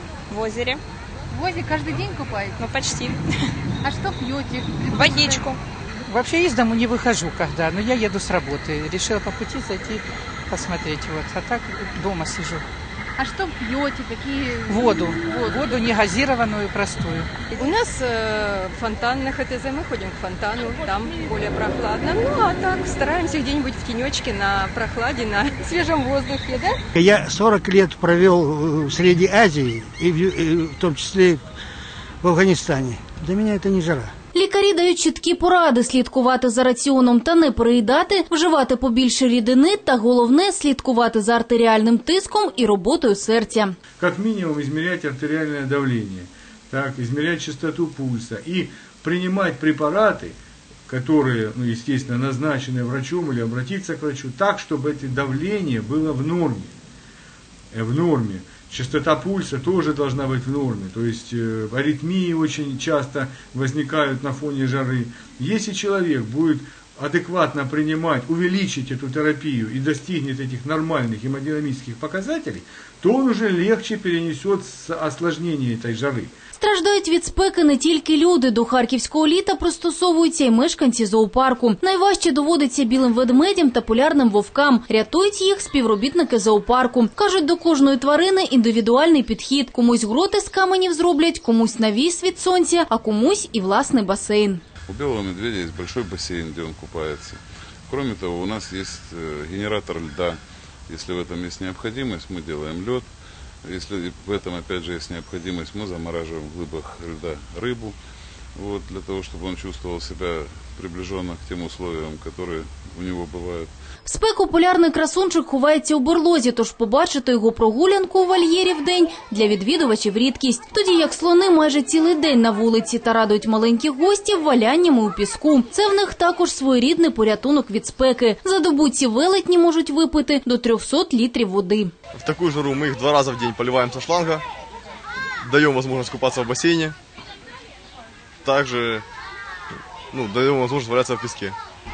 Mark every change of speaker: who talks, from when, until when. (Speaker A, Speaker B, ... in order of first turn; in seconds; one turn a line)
Speaker A: 0.3-0.8
Speaker B: 1.3-2.5
Speaker A: 2.6-3.2
Speaker B: 3.8-5.4
Speaker A: 4.9-5.6
Speaker C: 6.1-12.6
Speaker B: 13.2-15.6
Speaker C: 14.7-17.3
Speaker D: 17.5-26.7
Speaker E: 26.9-31.4
Speaker E: 32.2-34.1
Speaker F: 34.3-43.7
Speaker G: 44.0-50.4
Speaker G: 50.9-56.7
Speaker G: 57.7-76.3
Speaker F: 76.6-94.6
Speaker H: 94.9-103.1
Speaker H: 103.6-108.0
Speaker H: 108.5-113.7
Speaker F: 114.0-131.9
Speaker I: 132.1-134.4
Speaker I: 135.4-136.9
Speaker I: 138.4-139.0
Speaker I: 140.1-141.6